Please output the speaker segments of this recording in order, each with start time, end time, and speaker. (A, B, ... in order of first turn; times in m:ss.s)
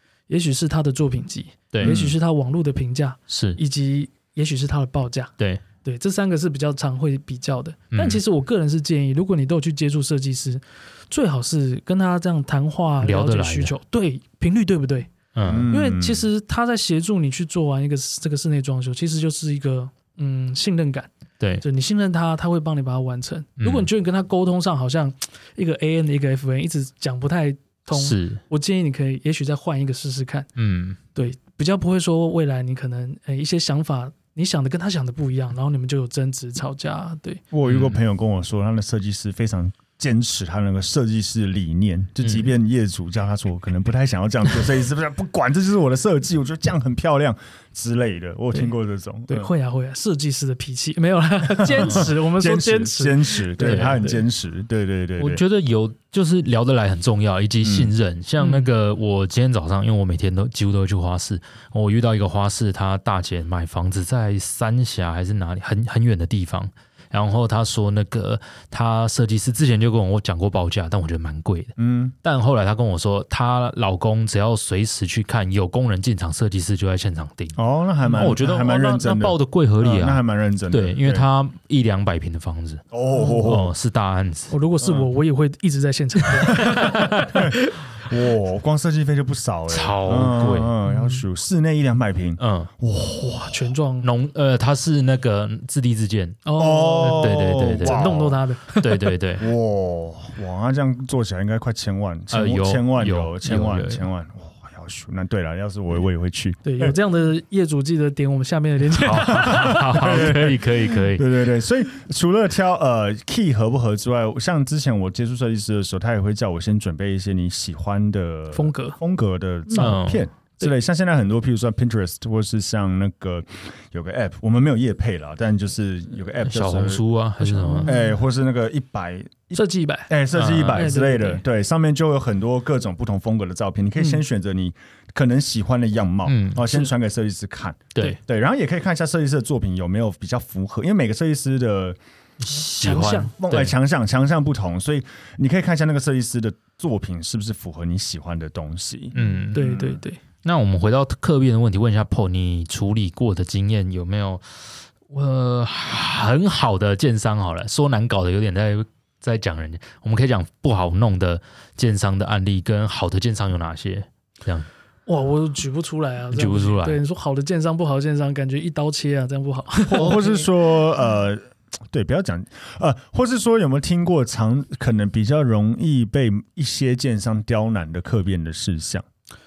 0:00.3-0:15.1 A
0:01.7-0:02.0 B
0:01.8-0:02.2 C
0:03.3-0:03.6 B
0:07.9-0:08.2 B
0:13.0-0:13.7 B
0:15.3-0:15.7 B
0:15.4-0:16.3 C
0:15.7-0:21.1 A
0:21.6-0:30.5 A
0:23.6-0:23.9 B
0:27.9-0:28.4 B
0:30.6-0:31.0 B
0:31.1-0:37.4 A
0:37.5-0:49.5 C
0:37.6-0:38.0 B
0:42.2-0:42.5 B
0:49.3-0:54.2 A
0:51.5-0:55.4 C
0:53.6-0:54.0 B
0:55.2-1:17.6 B
0:57.6-0:57.9 C
0:58.4-0:58.7 A
1:11.8-1:12.1 C
1:17.6-1:21.3 C
1:18.1-1:22.8 B
1:22.9-1:23.7 C
1:23.2-1:23.5 A
1:23.4-1:24.5 B
1:24.5-1:27.7 A
1:24.8-1:25.1 C
1:26.5-1:33.7 C
1:26.6-1:27.4 B
1:29.7-1:30.7 B
1:30.9-1:31.2 A
1:32.4-1:32.7 B
1:33.2-1:34.1 A
1:34.0-1:36.4 B
1:36.4-1:39.1 A
1:36.6-1:38.4 C
1:37.0-1:38.2 B
1:38.8-1:39.5 B
1:39.4-1:46.9 C
1:42.3-1:44.0 B
1:46.6-1:50.0 A
1:48.9-1:51.3 B
1:49.3-2:07.0 C
1:58.5-1:59.0 A
1:59.7-2:00.0 A
1:59.8-2:00.3 B
2:06.4-2:07.9 B
2:07.4-2:08.1 A
2:07.8-2:22.0 C
2:09.5-2:10.1 A
2:10.3-2:10.9 B
2:10.7-2:11.4 A
2:16.2-2:16.7 B
2:22.4-2:23.7 B
2:22.8-2:23.3 A
2:22.9-2:30.0 C
2:29.1-2:29.8 B
2:29.2-2:30.2 A
2:30.4-2:34.6 B
2:35.1-2:44.7 B
2:45.1-2:50.5 A
2:46.3-2:47.0 B
2:49.9-2:59.0 C